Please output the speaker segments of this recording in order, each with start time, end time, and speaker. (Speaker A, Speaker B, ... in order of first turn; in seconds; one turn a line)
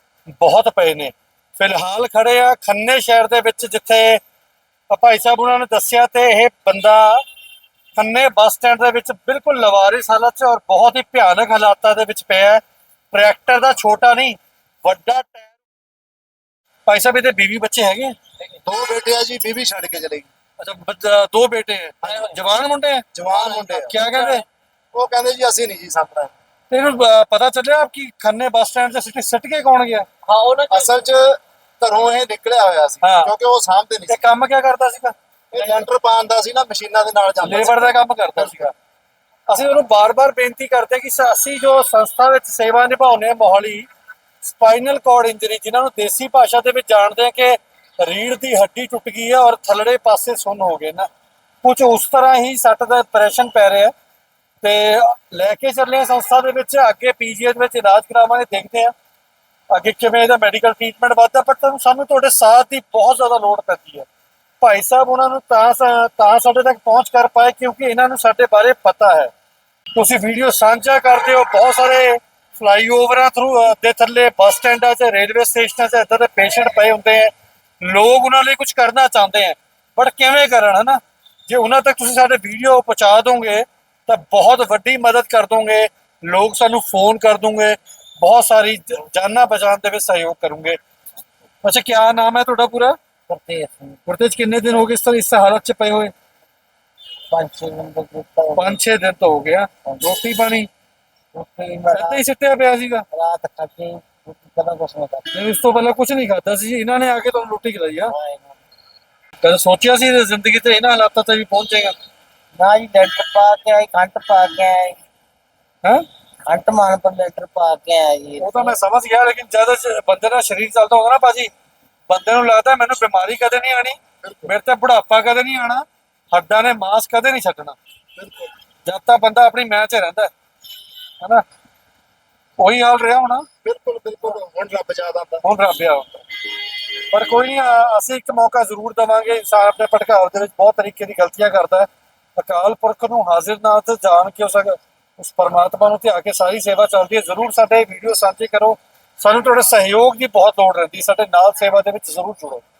Speaker A: 0.4-4.2
Speaker A: 4.9-7.2
Speaker A: 8.0-15.6
Speaker A: 16.9-18.1
Speaker B: 18.6-20.3
Speaker A: 20.6-23.1
Speaker B: 22.0-22.4
Speaker B: 23.1-24.1
Speaker A: 23.9-24.4
Speaker B: 24.9-26.3
Speaker A: 26.7-30.1
Speaker C: 30.3-30.9
Speaker B: 30.7-34.2
Speaker A: 33.0-33.3
Speaker A: 34.1-35.8
Speaker B: 35.5-38.7
Speaker A: 37.4-38.7
Speaker A: 39.5-43.9
Speaker A: 44.4-51.1
Speaker A: 51.6-53.9
Speaker A: 54.6-58.9
Speaker A: 59.7-64.1
Speaker A: 64.6-69.3
Speaker A: 70.0-90.8
Speaker A: 91.6-93.0
Speaker C: 93.3-94.0
Speaker A: 94.1-96.1
Speaker C: 97.3-98.8
Speaker A: 98.6-100.7
Speaker C: 101.3-102.2
Speaker A: 101.9-103.0
Speaker C: 103.1-105.3
Speaker A: 105.3-108.2
Speaker C: 108.1-108.6
Speaker A: 109.4-112.0
Speaker C: 112.6-115.0
Speaker C: 116.5-118.8
Speaker A: 118.4-121.5
Speaker A: 122.1-127.8
Speaker B: 124.2-124.5
Speaker B: 128.2-128.5
Speaker A: 128.9-130.3
Speaker A: 132.6-133.5
Speaker B: 133.6-135.4
Speaker A: 135.4-136.2
Speaker A: 137.1-152.6